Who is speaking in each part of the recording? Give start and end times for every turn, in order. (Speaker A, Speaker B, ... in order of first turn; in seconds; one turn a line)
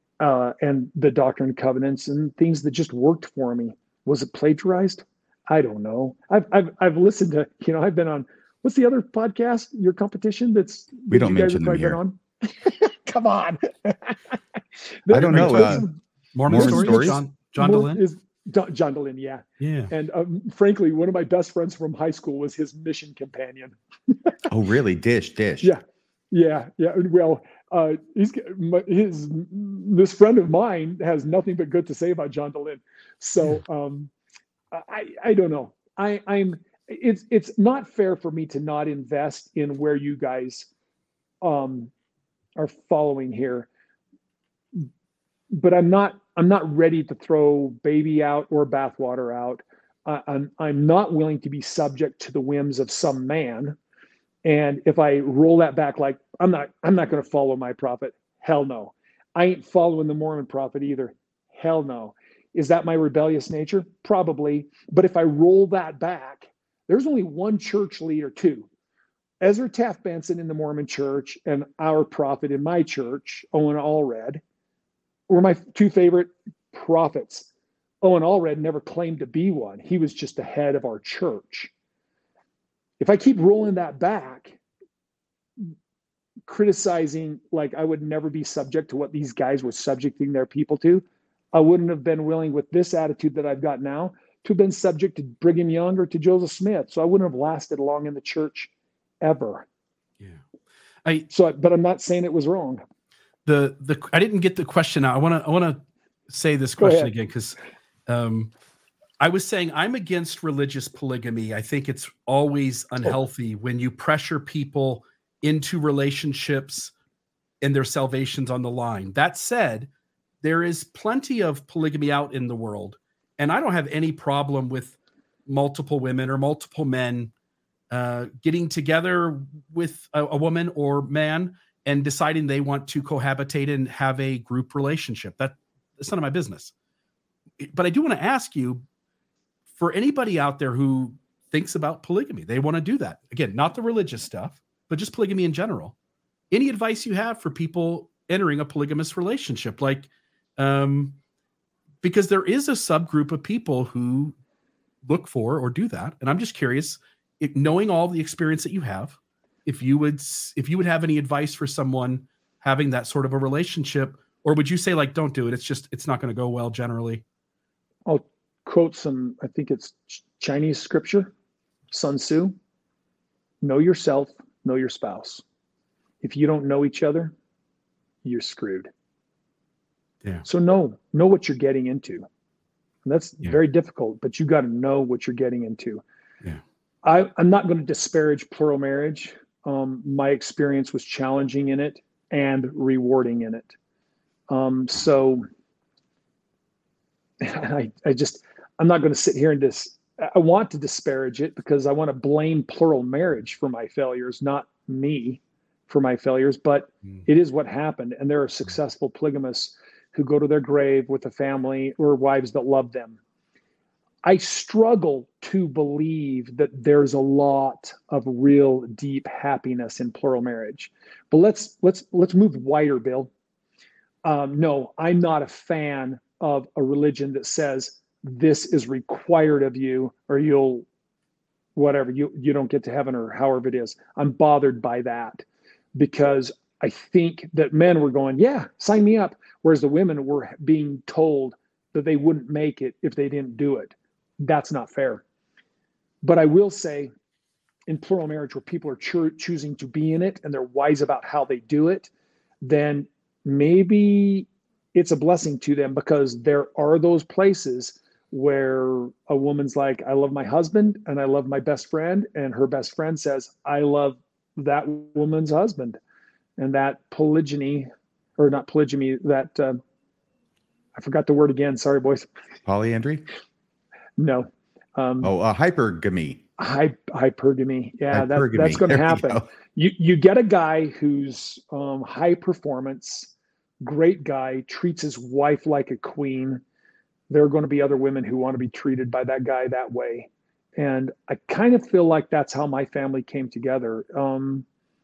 Speaker A: 0.2-14.4
Speaker B: 11.1-12.0
Speaker A: 15.1-16.0
Speaker B: 15.1-15.9
Speaker C: 15.1-18.0
Speaker B: 16.5-17.2
Speaker A: 16.5-24.3
Speaker C: 19.6-19.9
Speaker B: 24.5-25.7
Speaker A: 25.6-34.1
Speaker A: 34.7-40.7
Speaker A: 41.4-41.9
Speaker A: 42.6-43.7
Speaker A: 45.5-53.8
Speaker A: 54.4-68.7
Speaker A: 69.4-74.4
Speaker A: 75.3-77.5
Speaker A: 78.0-81.7
Speaker A: 83.0-84.6
Speaker A: 86.5-98.7
Speaker A: 99.2-99.7
Speaker A: 101.3-102.8
Speaker C: 103.5-108.5
Speaker A: 106.8-107.1
Speaker C: 109.2-116.9
Speaker C: 117.6-119.9
Speaker C: 120.4-125.0
Speaker C: 125.5-127.3
Speaker C: 127.9-136.7
Speaker C: 137.6-138.8
Speaker C: 139.8-145.9
Speaker C: 146.5-151.2
Speaker C: 152.0-154.3
Speaker C: 155.1-167.2
Speaker A: 168.1-171.3
Speaker A: 171.9-172.6
Speaker A: 173.6-175.4
Speaker A: 176.2-177.3
Speaker A: 178.2-178.9
Speaker A: 180.4-182.3
Speaker A: 183.1-186.0
Speaker A: 187.0-193.8
Speaker A: 194.5-195.5
Speaker A: 197.4-213.2
Speaker A: 214.2-223.3
Speaker A: 224.2-230.9
Speaker A: 231.8-235.4
Speaker A: 235.9-245.2
Speaker A: 246.2-247.1
Speaker A: 247.9-252.1
Speaker A: 252.6-266.0
Speaker A: 266.6-269.8
Speaker A: 271.0-272.3
Speaker B: 272.7-273.3
Speaker A: 274.2-275.3
Speaker B: 275.2-276.4
Speaker A: 276.6-286.6
Speaker B: 278.1-279.5
Speaker A: 287.3-294.6